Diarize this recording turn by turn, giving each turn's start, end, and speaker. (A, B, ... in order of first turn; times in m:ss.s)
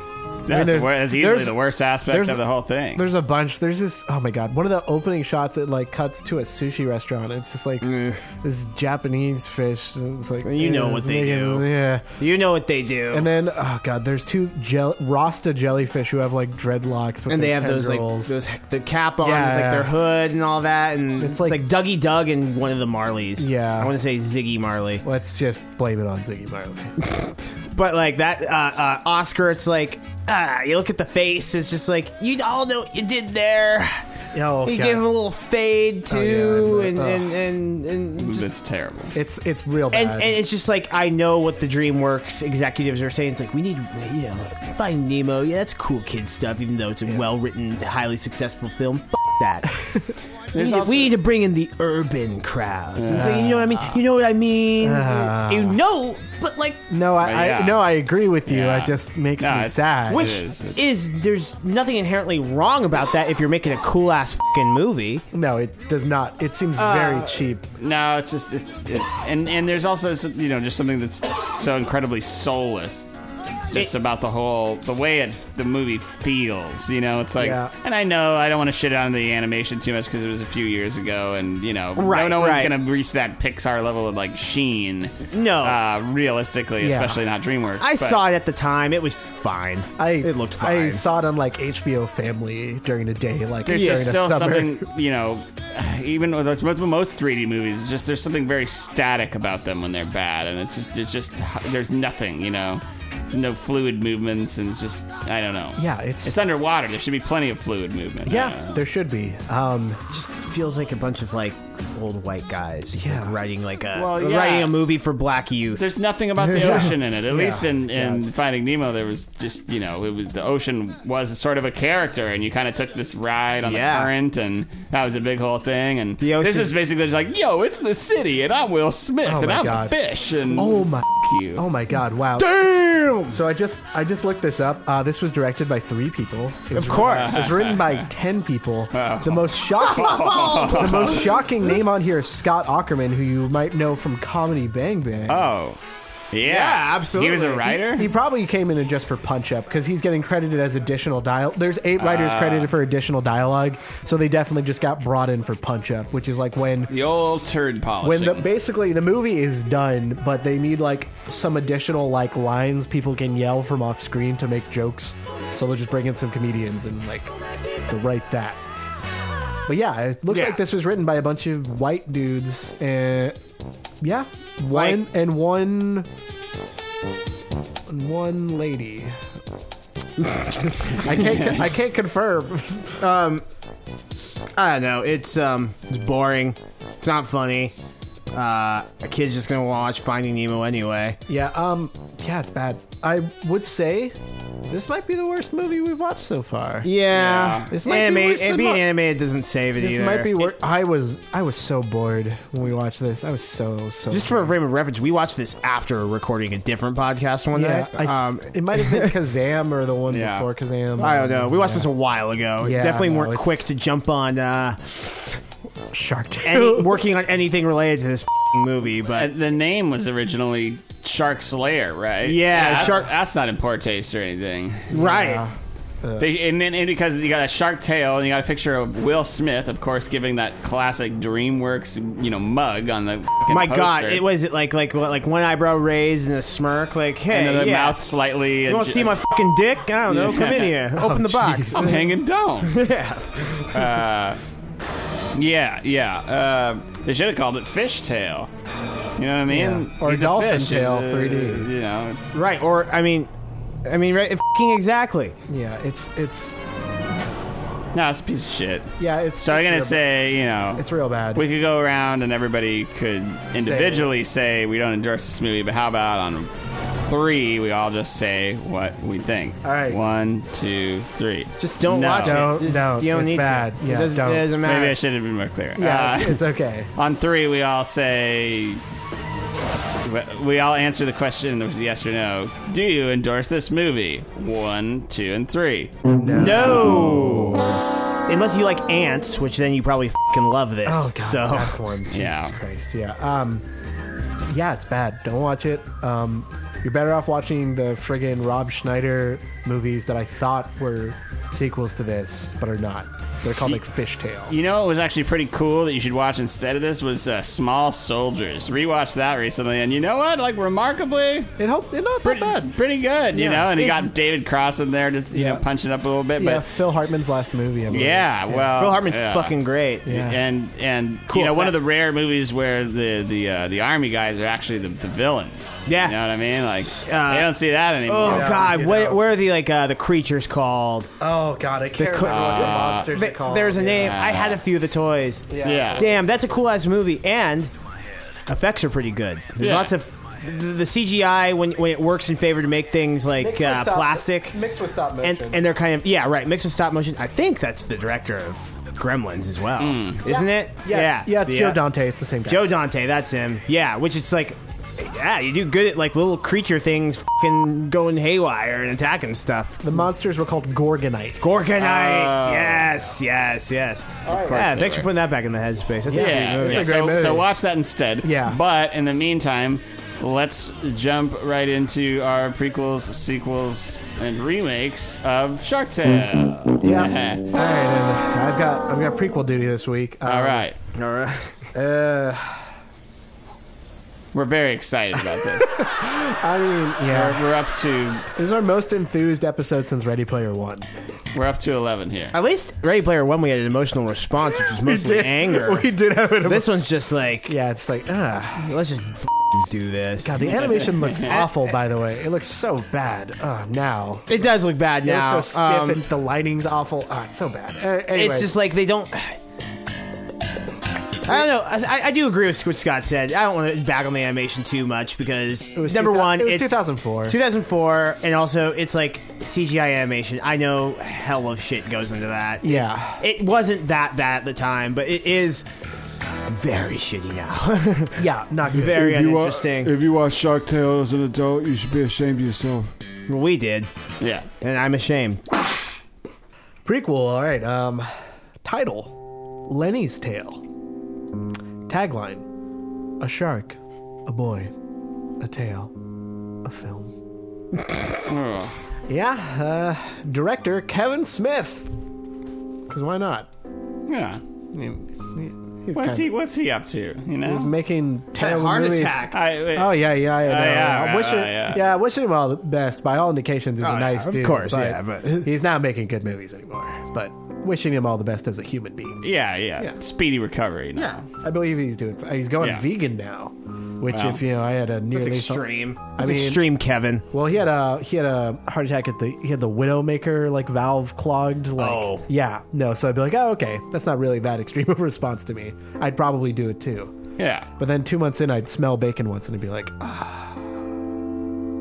0:00.5-0:02.4 A
0:00.5-0:03.1 B
0:03.0-0:12.1 A
0:07.8-0:08.2 C
0:10.4-0:13.3 C
0:13.1-0:18.3 A
0:17.3-0:25.0 C
0:19.2-0:20.0 A
0:21.2-0:21.7 A
0:23.4-0:24.0 A
0:25.0-0:26.9 A
0:27.0-0:34.0 C
0:34.3-0:35.1 A
0:34.6-0:38.5 C
0:36.1-0:37.4 A
0:38.2-0:39.2 B
0:39.1-0:40.4 A
0:39.9-0:49.8 C
0:49.8-0:50.1 A
0:50.5-0:51.2 B
0:50.5-0:56.8 C
0:53.0-0:53.9 B
0:53.1-0:53.7 A
0:54.8-0:55.8 A
0:56.9-1:00.4 A
0:57.2-0:57.9 B
0:58.5-1:00.8 B
1:00.1-1:05.2 C
1:05.3-1:07.7 A
1:06.8-1:07.5 C
1:07.8-1:13.2 B
1:13.7-1:28.2 B
1:17.4-1:17.7 A
1:22.0-1:22.8 C
1:25.3-1:25.8 C
1:26.8-1:27.2 A
1:27.8-1:31.0 C
1:30.0-1:34.8 A
1:33.7-1:48.8 B
1:33.7-1:34.2 C
1:45.8-1:46.4 A
1:48.2-1:50.0 A
1:50.1-1:55.9 C
1:53.0-1:53.4 A
1:53.9-1:54.8 B
1:55.8-2:11.6 B
1:56.5-1:56.8 C
1:56.6-1:57.7 A
2:03.6-2:04.1 C
2:06.2-2:06.8 C
2:09.2-2:10.0 A
2:10.5-2:12.6 A
2:12.4-2:13.4 C
2:13.3-2:25.5 A
2:16.7-2:17.4 C
2:17.0-2:18.1 B
2:18.9-2:21.4 B
2:19.9-2:21.1 C
2:25.3-2:25.8 B
2:26.3-2:28.1 B
2:26.4-2:27.8 C
2:27.8-2:36.9 A
2:32.0-2:32.7 B
2:36.9-2:38.5 B
2:38.0-2:47.3 A
2:47.9-2:48.6 A
2:49.7-2:53.4 A
2:50.3-2:50.6 C
2:54.0-2:56.1 A
2:54.7-2:55.0 C
2:57.9-2:59.2 A
3:00.4-3:01.0 C
3:00.9-3:03.0 A
3:01.3-3:01.6 B
3:03.0-3:03.4 C
3:04.6-3:07.8 C
3:08.3-3:11.2 C
3:11.3-3:14.2 A
3:14.7-3:16.9 A
3:16.8-3:20.5 C
3:17.1-3:17.8 B
3:17.7-3:18.9 A
3:19.8-3:24.6 A
3:24.1-3:29.1 C
3:27.5-3:31.9 A
3:30.1-3:30.5 B
3:31.0-3:35.1 C
3:32.6-3:33.6 A
3:35.9-3:37.0 A
3:36.4-3:39.3 C
3:39.1-3:44.9 B
3:42.2-3:43.1 C
3:44.9-3:45.4 C
3:44.9-3:46.3 A
3:46.2-3:54.3 B
3:53.5-3:58.0 C
3:57.3-3:59.3 B
3:58.6-4:02.0 C
4:00.1-4:00.9 B
4:00.9-4:02.1 A
4:01.7-4:02.9 B
4:02.6-4:04.0 C
4:03.7-4:04.4 B
4:05.3-4:08.5 B
4:09.2-4:12.4 B
4:09.5-4:11.7 A
4:12.3-4:13.3 C
4:13.8-4:15.4 C
4:15.5-4:16.6 A
4:17.9-4:26.5 B
4:19.0-4:20.0 A
4:20.8-4:21.5 A
4:23.5-4:24.1 A
4:27.1-4:32.6 B
4:29.6-4:30.0 A
4:31.6-4:35.0 C
4:32.2-4:34.6 A
4:34.6-4:38.8 B
4:35.8-4:36.9 A
4:40.0-4:47.6 B
4:46.1-4:47.5 A
4:46.3-4:47.7 C
4:48.3-4:51.8 C
4:50.8-4:53.7 A
4:52.1-4:52.6 B
4:54.5-5:04.6 A
5:04.5-5:11.5 B
5:11.6-5:12.8 A
5:12.2-5:16.6 B
5:13.3-5:13.9 A
5:15.3-5:15.6 A
5:16.4-5:18.7 A
5:17.9-5:28.7 B
5:18.7-5:20.1 C
5:20.1-5:20.4 A
5:21.3-5:21.8 C
5:25.9-5:26.2 C
5:27.0-5:27.5 C
5:28.1-5:31.1 C
5:28.2-5:29.2 A
5:31.2-5:34.2 A
5:32.0-5:37.7 C
5:32.2-5:33.1 B
5:33.9-5:34.6 B
5:35.5-5:36.2 A
5:35.6-5:36.1 B
5:38.5-5:44.6 C
5:39.6-5:39.9 B
5:43.4-5:45.7 A
5:45.2-5:51.8 C
5:49.8-5:50.2 B
5:50.2-5:52.7 A
5:52.5-5:59.8 C
5:59.8-6:01.7 A
6:01.4-6:07.0 C
6:01.8-6:03.0 B
6:04.3-6:04.7 A
6:04.3-6:05.1 B
6:06.1-6:07.5 A
6:06.1-6:17.5 B
6:08.2-6:08.6 A
6:16.8-6:20.7 A
6:20.3-6:20.8 B
6:20.9-6:21.6 C
6:21.7-6:22.7 A
6:24.3-6:25.9 B
6:25.6-6:27.5 A
6:27.1-6:28.3 B
6:28.3-6:30.9 A
6:31.3-6:32.3 B
6:32.3-6:35.9 C
6:34.7-6:36.8 A
6:36.4-6:37.6 C
6:37.5-6:38.7 A
6:38.6-6:41.6 C
6:40.2-6:44.5 A
6:40.9-6:41.4 B
6:44.3-6:46.1 C
6:45.0-6:48.6 A
6:48.1-6:49.4 C
6:51.2-7:05.7 C
6:55.8-6:57.4 A
7:02.6-7:03.2 A
7:06.5-7:10.0 C
7:08.2-7:09.2 A
7:08.9-7:12.9 D
7:13.3-7:13.9 C
7:14.2-7:14.5 B
7:14.6-7:15.4 C
7:16.8-7:18.1 A
7:18.6-7:19.2 A
7:19.7-7:20.6 A
7:21.9-7:22.5 A
7:23.2-7:24.7 A
7:25.4-7:25.9 A
7:26.6-7:27.2 A
7:28.3-7:28.8 B
7:29.1-7:31.9 A
7:32.9-7:33.5 A
7:34.1-7:34.9 B
7:34.8-7:36.3 A
7:35.9-7:37.7 B
7:37.4-7:49.2 A
7:38.4-7:39.4 C
7:39.3-7:41.8 B
7:43.8-7:45.5 C
7:49.2-7:51.3 B
7:51.3-7:56.6 A
7:52.6-7:52.9 B
7:54.1-7:54.4 B
7:55.1-7:57.2 C
7:57.3-8:07.1 A
8:01.8-8:02.3 C
8:07.4-8:07.7 B
8:07.8-8:10.8 A